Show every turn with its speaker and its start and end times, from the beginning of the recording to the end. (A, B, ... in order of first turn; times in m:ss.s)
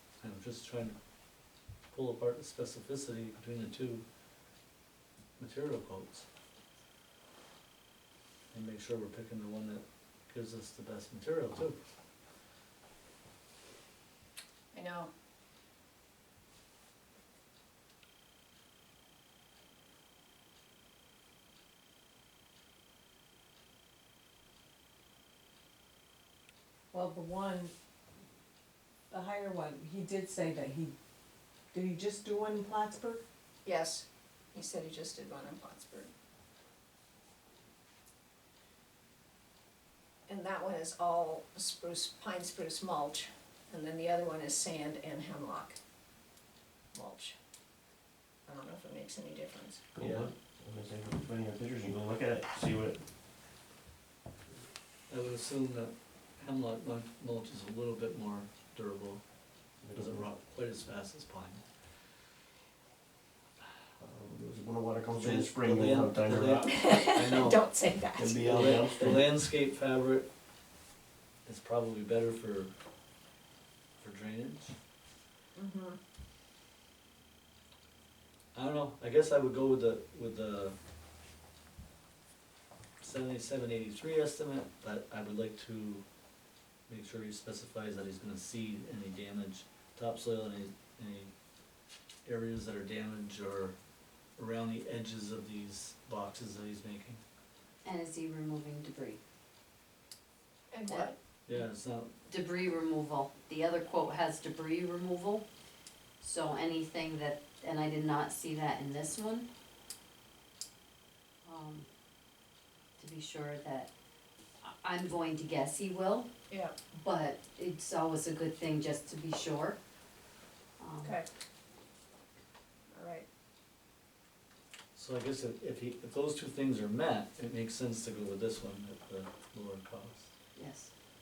0:00.2-0:01.0 A
0:01.9-0:04.0 A
0:05.4-0:06.2 A
0:08.5-0:11.8 A
0:14.7-0:15.1 B
0:26.9-0:27.7 C
0:29.1-0:30.9 C
0:31.7-0:33.2 C
0:33.6-0:36.1 B
0:40.3-0:45.8 B
0:46.9-0:47.3 B
0:48.5-0:49.8 B
0:50.0-0:53.0 D
0:50.0-0:50.3 A
0:55.1-0:59.2 A
0:59.8-1:00.2 D
0:59.9-1:01.6 A
1:04.0-1:06.8 D
1:05.1-1:07.6 A
1:06.7-1:08.4 B
1:08.1-1:09.3 D
1:08.4-1:10.3 A
1:11.4-1:12.7 A
1:14.0-1:14.7 A
1:15.5-1:16.0 B
1:18.5-1:20.8 A
1:23.0-1:26.0 A
1:26.9-1:31.3 A
1:32.2-1:33.8 A
1:34.4-1:37.2 A
1:37.8-1:39.2 E
1:40.7-1:41.1 B
1:40.9-1:41.6 E
1:41.5-1:42.1 A
1:42.2-1:45.4 E
1:46.2-1:49.5 E
1:51.4-1:51.8 E
1:53.0-1:53.9 E
1:54.6-1:56.3 E
1:56.9-1:59.8 E
2:00.8-2:01.2 E
2:02.9-2:03.2 B
2:04.9-2:10.3 A
2:10.5-2:10.9 E